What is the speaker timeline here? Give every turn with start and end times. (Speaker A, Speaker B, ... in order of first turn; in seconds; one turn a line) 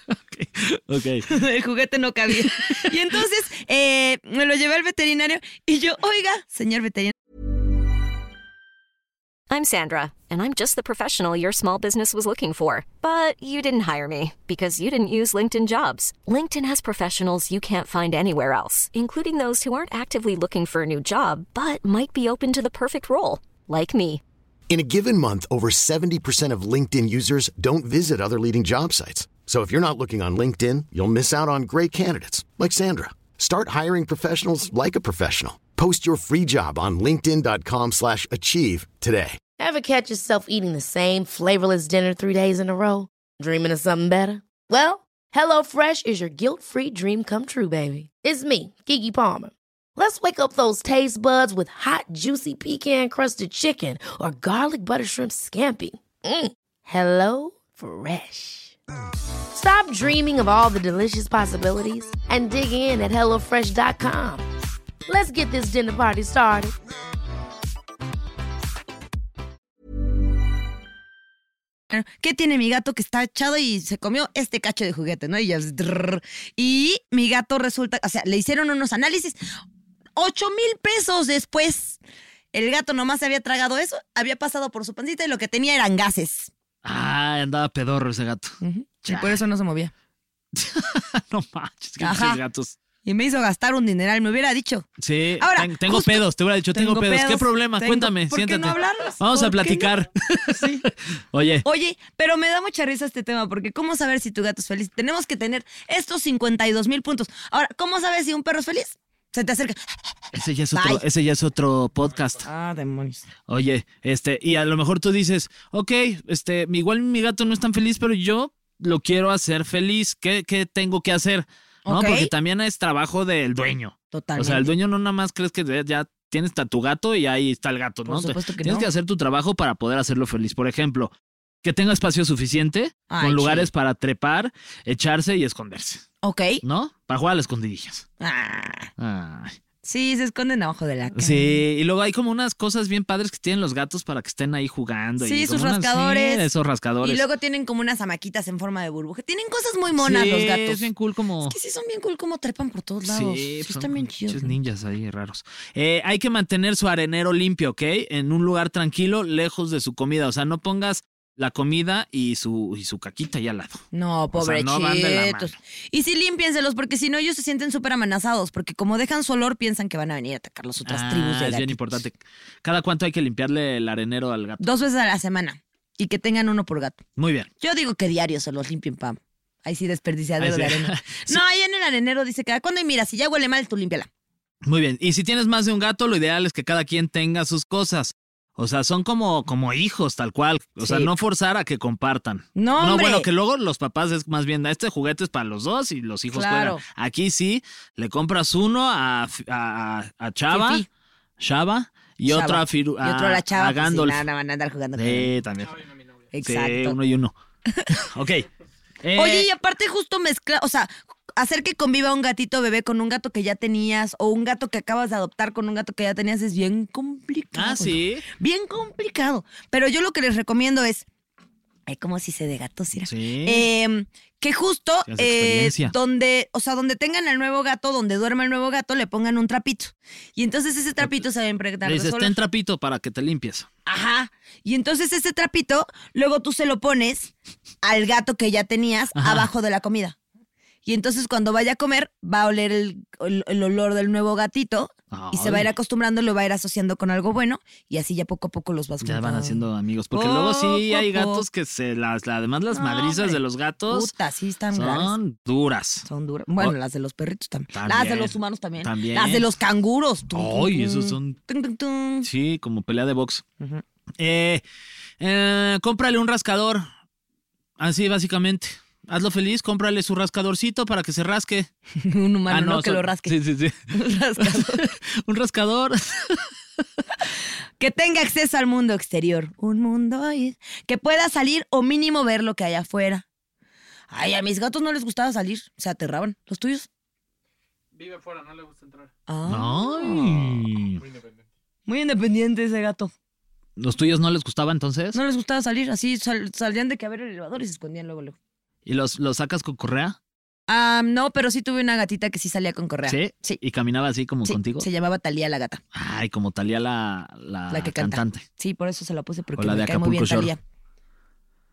Speaker A: 0.1-1.3
Speaker B: 1.3-7.1
Speaker A: 2.6-2.9
Speaker C: 9.5-24.2
Speaker D: 24.7-39.4
Speaker E: 39.6-58.8
Speaker E: 59.5-64.5
Speaker E: 65.1-66.8
Speaker B: 71.9-79.4
Speaker B: 80.2-82.0
Speaker B: 82.5-86.5
Speaker A: 86.8-89.4
Speaker B: 88.6-89.9
Speaker A: 90.5-92.8
Speaker B: 92.0-92.4
Speaker B: 93.0-94.9
Speaker A: 95.0-101.7
Speaker B: 95.4-96.2
Speaker B: 96.7-99.9
Speaker B: 100.5-100.8
Speaker B: 101.6-109.8
Speaker A: 110.3-112.5
Speaker B: 110.7-111.0
Speaker B: 112.5-113.2
Speaker A: 113.5-131.1
Speaker B: 121.9-122.3
Speaker B: 124.1-124.7
Speaker B: 128.1-128.9
Speaker A: 131.6-136.0
Speaker B: 133.1-133.7
Speaker B: 136.2-136.6
Speaker A: 136.6-138.1
Speaker B: 138.2-138.9
Speaker A: 139.0-139.6
Speaker B: 139.8-141.6
Speaker A: 141.1-147.3
Speaker B: 145.2-146.5
Speaker B: 147.0-150.9
Speaker A: 149.9-151.6
Speaker B: 151.5-154.5
Speaker A: 153.1-165.5
Speaker B: 163.9-172.0
Speaker A: 170.9-174.6
Speaker B: 174.6-177.0
Speaker A: 177.2-177.5
Speaker B: 177.6-184.1
Speaker A: 180.4-181.4
Speaker A: 184.6-200.8
Speaker B: 190.8-191.1
Speaker B: 192.6-193.3
Speaker B: 196.3-196.8
Speaker B: 200.5-200.9
Speaker A: 201.4-204.2
Speaker B: 202.3-205.3
Speaker A: 204.9-205.8
Speaker F: 205.6-206.3
Speaker B: 206.3-207.0
Speaker A: 206.4-207.3
Speaker A: 207.9-208.5
Speaker A: 209.0-209.5
Speaker B: 209.2-221.1
Speaker A: 217.6-218.3
Speaker B: 221.9-232.4
Speaker A: 223.1-223.7
Speaker A: 225.1-225.9
Speaker A: 231.8-233.7
Speaker B: 233.9-237.3
Speaker B: 237.8-240.2
Speaker A: 239.2-239.5
Speaker B: 240.8-251.4
Speaker A: 245.1-245.7
Speaker A: 249.0-254.1
Speaker B: 252.7-255.1
Speaker A: 254.7-256.1
Speaker B: 256.1-262.3
Speaker A: 257.7-259.5
Speaker A: 260.3-261.4
Speaker A: 262.2-263.4
Speaker A: 264.2-264.6
Speaker A: 265.2-266.9
Speaker A: 267.8-271.7
Speaker B: 272.0-273.3
Speaker A: 272.5-276.5
Speaker B: 273.9-274.8
Speaker B: 277.8-283.2
Speaker B: 284.1-286.9
Speaker F: 287.9-289.1
Speaker B: 289.3-290.6
Speaker A: 289.5-291.0
Speaker F: 291.0-291.5
Speaker B: 291.9-293.1
Speaker A: 293.8-295.2
Speaker B: 295.1-298.4
Speaker A: 298.9-300.2
Speaker B: 300.7-303.6
Speaker A: 303.1-304.9
Speaker B: 304.4-305.8
Speaker A: 305.9-308.4
Speaker B: 307.7-310.6
Speaker A: 309.6-310.5